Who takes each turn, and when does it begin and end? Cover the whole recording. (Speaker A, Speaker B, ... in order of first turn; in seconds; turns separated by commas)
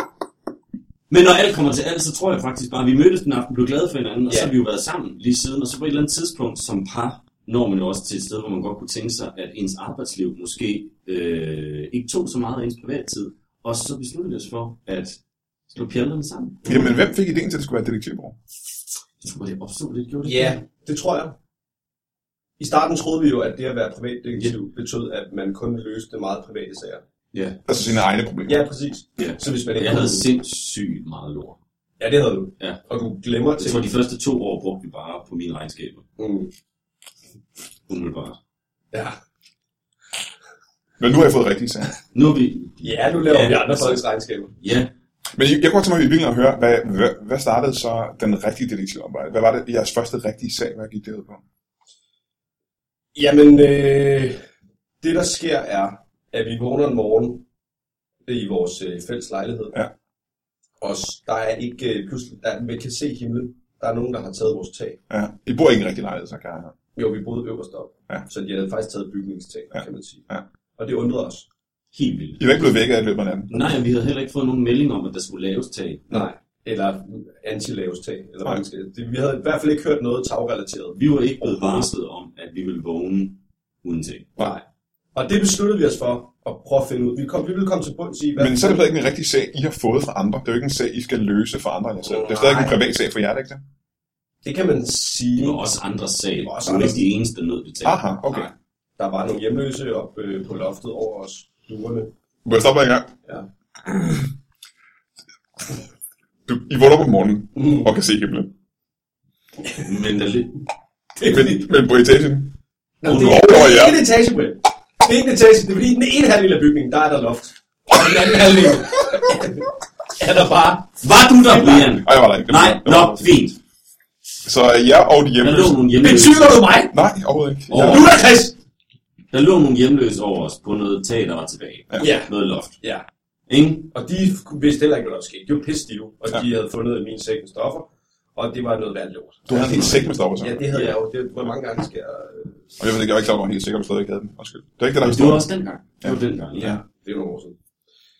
Speaker A: 1.1-16.9, Speaker B: 4.3-4.5, Speaker B: 16.6-16.9, Speaker C: 16.6-18.4, Speaker A: 19.2-20.6, Speaker B: 20.2-21.4, Speaker B: 22.6-27.0, Speaker A: 27.3-27.7, Speaker C: 27.7-28.6, Speaker B: 28.5-30.3, Speaker A: 29.2-31.6, Speaker B: 32.0-33.9, Speaker A: 33.6-36.0, Speaker B: 36.2-36.5, Speaker A: 37.9-38.4, Speaker B: 38.9-39.2, Speaker C: 41.0-41.9, Speaker A: 42.1-44.0, Speaker B: 42.8-44.5, Speaker A: 44.6-44.9, Speaker C: 45.3-51.4, Speaker B: 53.1-54.4, Speaker B: 55.0-57.4, Speaker B: 58.2-59.8, Speaker B: 60.8-65.0, Speaker C: 65.1-66.7, Speaker B: 66.9-71.5, Speaker C: 69.7-70.4, Speaker A: 71.9-72.8, Speaker C: 72.4-73.6, Speaker A: 73.5-76.2, Speaker B: 76.1-81.9, Speaker A: 80.9-84.3, Speaker B: 84.4-84.6, Speaker B: 85.1-88.9, Speaker C: 88.4-93.6, Speaker B: 92.0-92.8, Speaker B: 94.4-95.7, Speaker A: 95.4-98.0, Speaker B: 96.4-97.1, Speaker C: 97.8-98.5, Speaker B: 98.3-102.1, Speaker C: 102.4-103.1, Speaker C: 106.5-108.5, Speaker B: 107.5-107.9, Speaker A: 109.8-110.6, Speaker B: 111.2-111.7, Speaker C: 111.2-114.0, Speaker B: 113.0-121.9, Speaker A: 121.0-123.6, Speaker C: 121.7-123.3, Speaker C: 124.4-125.9, Speaker A: 125.4-126.6, Speaker B: 126.0-127.0, Speaker C: 126.9-128.1, Speaker A: 127.7-128.1, Speaker B: 127.7-128.6, Speaker A: 129.3-132.8, Speaker B: 132.0-133.1, Speaker A: 133.5-133.9, Speaker B: 133.9-142.8, Speaker C: 139.5-140.7, Speaker C: 142.8-145.5, Speaker A: 145.0-146.8, Speaker C: 146.0-146.8, Speaker B: 146.6-147.6